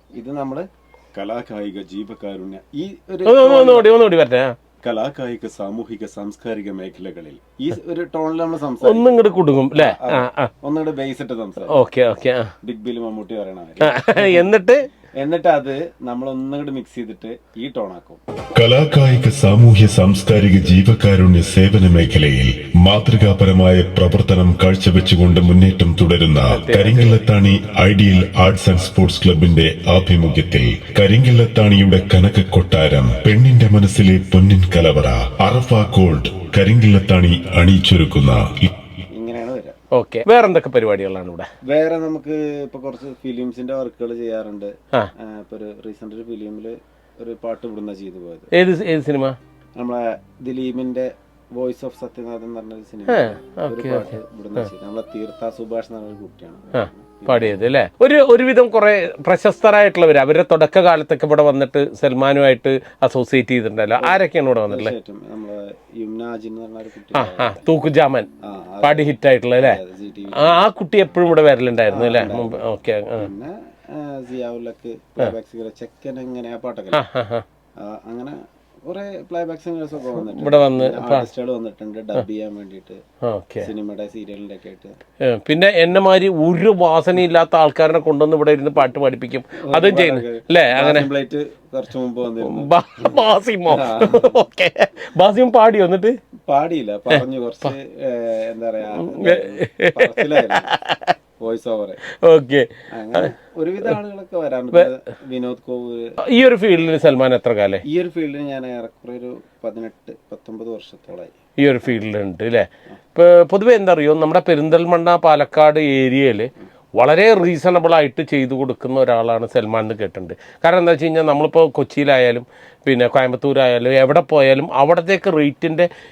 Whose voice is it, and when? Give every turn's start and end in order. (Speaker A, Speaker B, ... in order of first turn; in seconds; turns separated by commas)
Speaker A: 0.1-3.9, Speaker B: 3.3-4.5, Speaker A: 4.8-9.2, Speaker B: 8.8-10.5, Speaker A: 9.8-11.8, Speaker B: 11.7-12.5, Speaker A: 12.6-14.5, Speaker B: 13.8-14.8, Speaker A: 15.2-18.2, Speaker C: 18.6-38.7, Speaker B: 26.5-27.2, Speaker A: 39.1-39.8, Speaker B: 39.9-41.5, Speaker A: 41.7-48.5, Speaker B: 48.5-49.4, Speaker A: 49.8-57.6, Speaker B: 53.1-54.7, Speaker B: 56.7-64.9, Speaker A: 64.0-67.6, Speaker B: 67.1-68.3, Speaker A: 68.5-70.6, Speaker B: 68.8-69.8, Speaker B: 70.3-73.3, Speaker A: 71.9-72.6, Speaker A: 73.2-77.0, Speaker B: 76.9-77.4, Speaker A: 77.8-83.0, Speaker B: 80.2-81.3, Speaker B: 83.2-83.7, Speaker A: 83.6-84.9, Speaker B: 85.2-91.1, Speaker A: 89.6-94.3, Speaker B: 92.4-96.1, Speaker A: 96.5-100.7, Speaker B: 97.1-97.7, Speaker B: 99.0-101.1, Speaker A: 101.4-102.0, Speaker B: 102.2-103.3, Speaker A: 102.9-106.1, Speaker B: 106.2-107.8, Speaker A: 107.9-111.3, Speaker B: 111.6-125.9